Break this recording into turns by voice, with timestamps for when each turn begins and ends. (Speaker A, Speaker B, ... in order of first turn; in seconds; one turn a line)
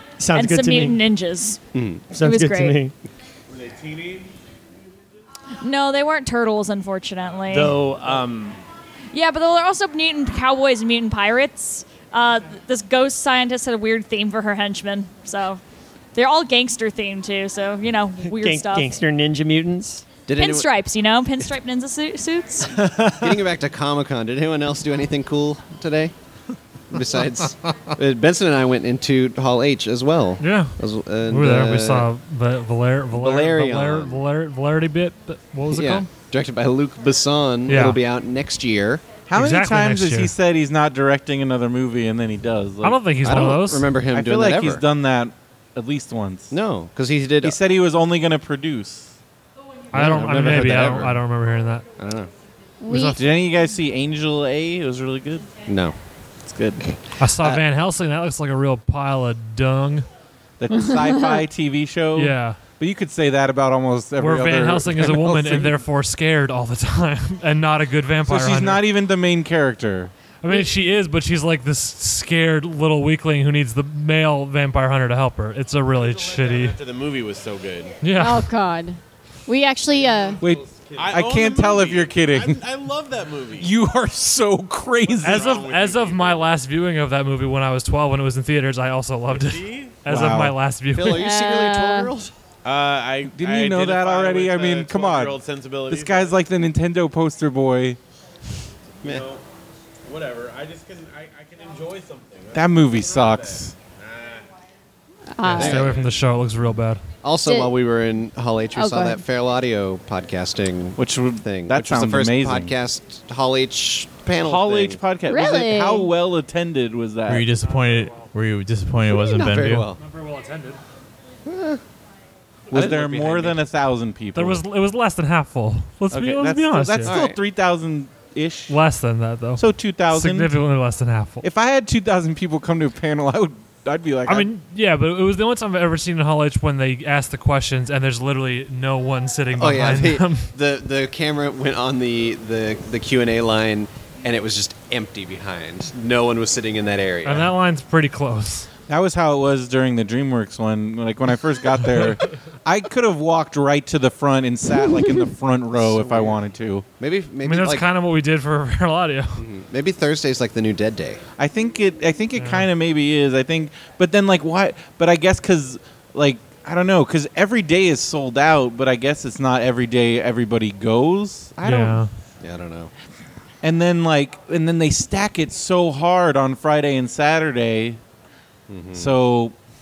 Speaker A: 0.2-1.1
Speaker B: 0.3-1.6
Speaker C: 1.7-2.0
Speaker A: 2.1-2.9
Speaker B: 2.2-2.8
Speaker D: 3.5-4.3
Speaker B: 5.6-7.8
Speaker A: 7.5-8.6
Speaker B: 9.1-15.6
Speaker B: 16.1-19.0
Speaker A: 18.3-20.1
Speaker C: 20.3-20.7
Speaker B: 20.3-22.7
Speaker A: 22.7-23.4
Speaker C: 23.2-26.1
Speaker C: 26.9-32.1
Speaker E: 30.4-36.1
Speaker C: 33.1-34.2
Speaker C: 35.7-39.1
Speaker E: 37.7-38.0
Speaker F: 39.3-43.5
Speaker E: 39.3-40.3
Speaker E: 42.8-43.9
Speaker C: 43.2-44.8
Speaker F: 44.1-46.6
Speaker C: 46.5-47.5
Speaker F: 47.4-49.1
Speaker E: 49.9-51.9
Speaker C: 49.9-51.2
Speaker C: 52.0-52.3
Speaker G: 52.8-53.2
Speaker E: 52.9-53.2
Speaker F: 53.1-55.5
Speaker C: 55.7-55.9
Speaker F: 56.5-57.0
Speaker E: 57.2-60.1
Speaker F: 60.6-65.8
Speaker E: 62.1-62.6
Speaker E: 64.2-68.8
Speaker F: 68.2-70.1
Speaker E: 70.4-76.8
Speaker D: 75.9-78.0
Speaker E: 78.0-78.5
Speaker G: 78.2-80.4
Speaker D: 80.3-83.7
Speaker F: 80.4-82.6
Speaker F: 83.6-85.6
Speaker D: 85.0-86.5
Speaker E: 85.2-91.3
Speaker D: 89.3-90.0
Speaker F: 90.1-90.6
Speaker C: 90.9-92.3
Speaker G: 91.1-92.1
Speaker D: 92.6-96.4
Speaker F: 93.3-95.4
Speaker F: 95.9-98.0
Speaker D: 99.0-99.4
Speaker D: 100.0-104.5
Speaker F: 102.5-103.7
Speaker G: 105.3-105.8
Speaker E: 105.4-107.0
Speaker C: 105.5-106.0
Speaker D: 105.7-106.2
Speaker C: 107.2-115.0
Speaker G: 107.4-107.7
Speaker G: 108.7-109.2
Speaker F: 111.0-112.7
Speaker F: 114.4-117.5
Speaker G: 115.3-116.1
Speaker H: 117.3-119.9
Speaker E: 117.5-118.3
Speaker C: 119.1-120.0
Speaker E: 119.9-120.8
Speaker C: 121.5-121.8
Speaker C: 122.7-123.0
Speaker F: 122.7-124.6
Speaker H: 122.8-123.4
Speaker E: 124.3-127.1
Speaker F: 126.1-128.8
Speaker C: 127.0-127.4
Speaker E: 128.7-131.4
Speaker F: 129.6-130.6
Speaker F: 131.4-134.5
Speaker E: 134.2-140.5
Speaker C: 139.5-147.5
Speaker E: 147.2-148.7
Speaker F: 148.9-156.8
Speaker C: 155.8-156.4
Speaker C: 157.0-157.8
Speaker E: 157.4-159.4
Speaker C: 159.3-161.2
Speaker F: 161.4-172.0
Speaker E: 162.3-162.7
Speaker E: 171.6-172.1
Speaker C: 172.4-172.9
Speaker F: 173.6-178.0
Speaker C: 178.7-179.2
Speaker F: 178.9-179.5